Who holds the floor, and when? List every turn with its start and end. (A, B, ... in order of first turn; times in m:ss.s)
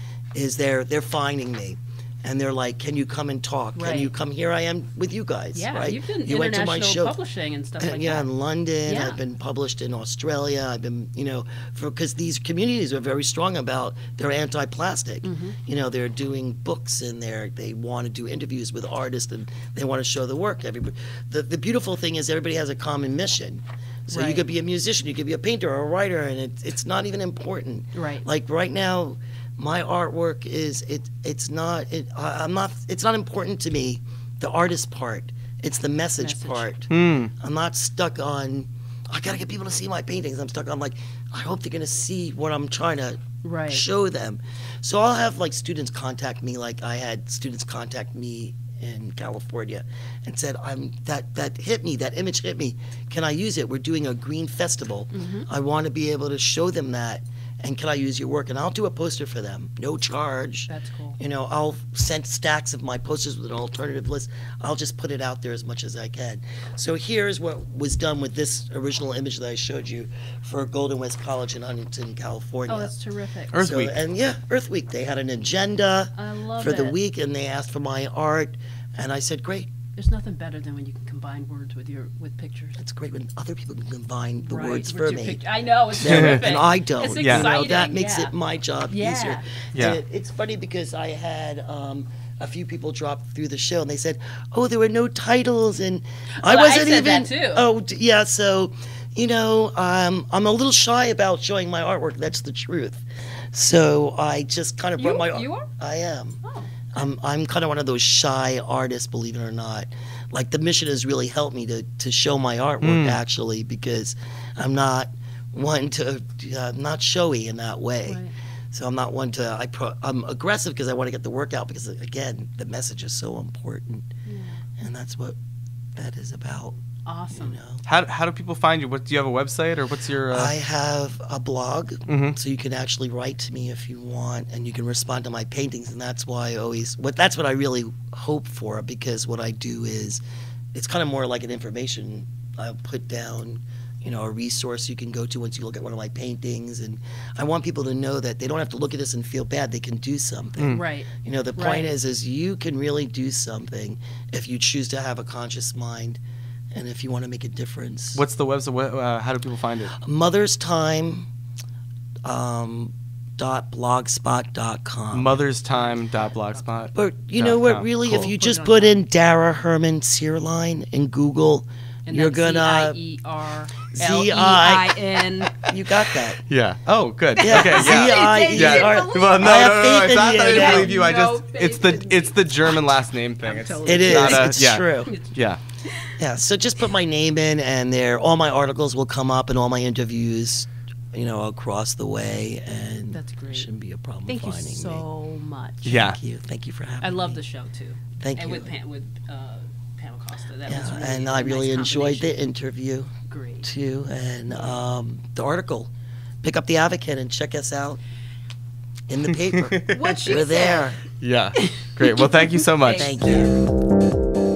0:00.3-0:07.2 A
0:03.7-0:04.1 B
0:05.5-0:08.2 B
0:07.8-1:12.9 A
0:08.8-0:09.2 B
0:15.2-0:15.6 B
0:24.1-0:24.4 B
0:27.9-0:28.2 B
0:36.2-0:36.7 B
0:36.9-0:37.3 C
0:43.4-0:43.8 B
0:55.1-0:55.5 B
1:00.7-1:01.2 B
1:12.7-1:13.6 B
1:13.5-1:13.9 C
1:13.5-1:19.7 A
1:16.2-1:16.9 B
1:20.0-1:22.8 B
1:22.8-1:25.4 A
1:24.5-1:28.3 B
1:26.0-1:26.4 C
1:26.0-1:46.4 A
1:27.2-1:27.5 C
1:28.9-1:29.4 B
1:29.7-1:30.0 C
1:36.4-1:37.6 B
1:45.0-1:45.7 B
1:46.4-1:46.7 B
1:46.9-2:04.1 A
1:52.8-1:53.2 C
1:58.0-1:58.3 B
2:04.2-2:04.6 B
2:04.8-2:05.4 A
2:05.9-2:06.8 A
2:07.0-2:07.6 B
2:07.3-2:07.8 A
2:07.8-2:10.5 C
2:10.3-2:20.2 A
2:12.1-2:12.4 C
2:20.7-2:36.2 A
2:30.6-2:30.8 C
2:30.6-2:31.9 B
2:36.7-2:38.2 A
2:38.1-2:40.0 C
2:40.0-2:41.3 A
2:42.2-2:45.4 A
2:45.1-2:48.2 C
2:45.7-2:46.7 B
2:46.9-2:53.0 A
2:48.0-2:49.0 B
2:52.0-2:55.5 B
2:53.9-2:55.0 A
2:55.6-2:56.4 A
2:56.5-3:05.6 C
2:57.4-2:59.7 B
2:57.4-3:01.0 A
3:00.3-3:02.7 B
3:03.4-3:05.3 B
3:03.8-3:05.1 A
3:05.8-3:06.1 B
3:06.2-3:15.0 A
3:13.1-3:13.7 B
3:14.2-3:15.9 B
3:15.8-3:17.4 A
3:15.8-3:16.2 C
3:17.0-3:22.3 B
3:18.2-3:18.7 A
3:20.6-3:25.9 A
3:23.3-3:23.7 B
3:26.4-3:28.0 A
3:29.1-3:31.0 A
3:29.5-3:30.2 C
3:29.9-3:30.8 B
3:31.2-3:33.1 C
3:31.6-3:33.5 B
3:33.0-3:33.6 A